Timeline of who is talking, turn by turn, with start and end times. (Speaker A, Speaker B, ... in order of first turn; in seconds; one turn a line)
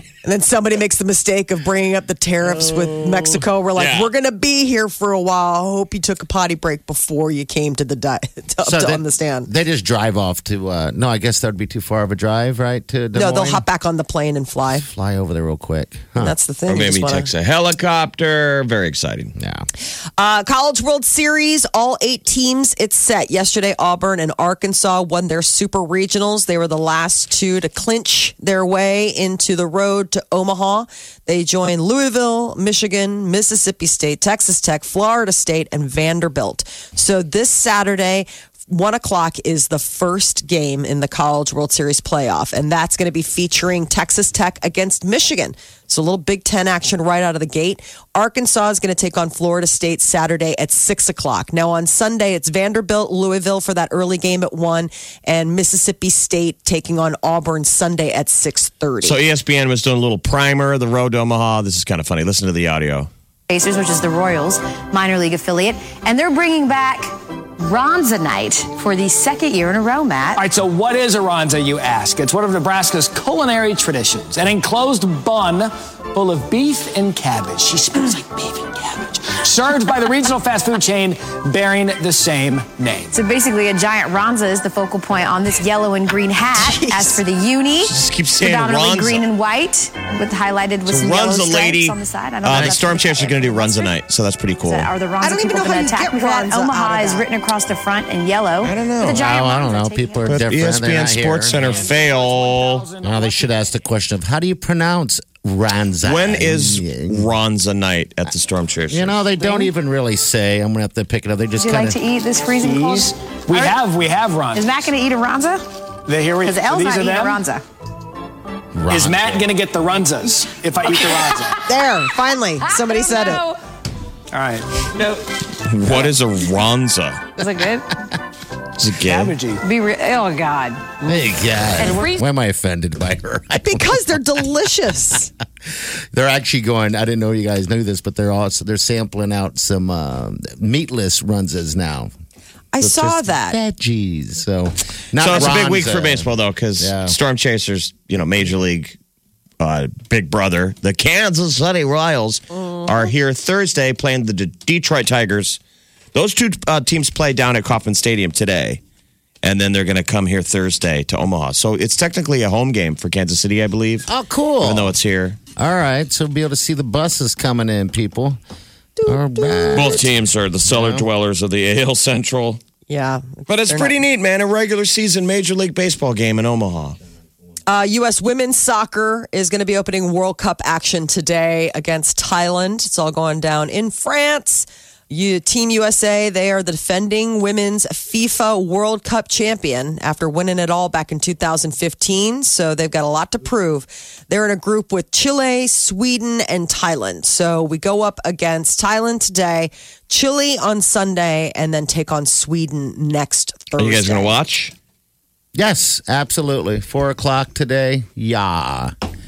Speaker A: 0.2-9.5
Speaker B: 2.6-3.4
Speaker C: 3.8-4.1
Speaker B: 8.6-13.6
Speaker A: 13.1-14.9
Speaker B: 14.9-16.4
Speaker A: 16.2-17.3
Speaker C: 16.7-19.3
Speaker B: 19.4-19.7
Speaker A: 20.2-59.2
Speaker C: 59.0-63.1
Speaker D: 63.5-70.4
Speaker E: 70.3-83.1
Speaker D: 83.1-93.9
Speaker A: 86.5-87.2
Speaker C: 87.8-89.2
Speaker C: 90.8-94.9
Speaker B: 92.5-93.0
Speaker D: 94.6-100.4
Speaker A: 95.2-97.2
Speaker C: 98.6-99.2
Speaker B: 99.1-101.9
Speaker C: 100.2-102.9
Speaker E: 101.6-103.7
Speaker B: 103.0-107.3
Speaker C: 106.0-109.2
Speaker B: 108.9-112.0
Speaker D: 109.4-109.7
Speaker D: 111.6-113.8
Speaker E: 112.6-114.8
Speaker D: 114.5-115.7
Speaker E: 116.1-117.4
Speaker D: 116.4-117.6
Speaker B: 118.7-119.5
Speaker E: 118.9-121.6
Speaker A: 121.6-123.4
Speaker D: 122.7-123.6
Speaker E: 124.3-125.2
Speaker C: 125.6-127.2
Speaker D: 127.4-127.9
Speaker C: 128.8-129.3
Speaker E: 129.0-129.6
Speaker D: 129.6-131.1
Speaker B: 131.0-134.2
Speaker D: 131.8-132.2
Speaker E: 131.8-132.1
Speaker A: 133.6-135.3
Speaker B: 135.7-142.1
Speaker A: 142.7-143.6
Speaker B: 142.8-147.1
Speaker C: 145.2-148.9
Speaker C: 149.6-155.6
Speaker C: 156.1-158.8
Speaker C: 159.4-164.1
Speaker B: 164.1-164.9
Speaker C: 164.6-165.4
Speaker B: 165.6-168.4
Speaker A: 169.0-170.1
Speaker B: 169.1-171.1
Speaker C: 169.7-172.6
Speaker A: 172.9-173.9
Speaker C: 173.5-177.0
Speaker A: 177.7-204.3
Speaker C: 203.8-204.7
Speaker B: 205.5-208.9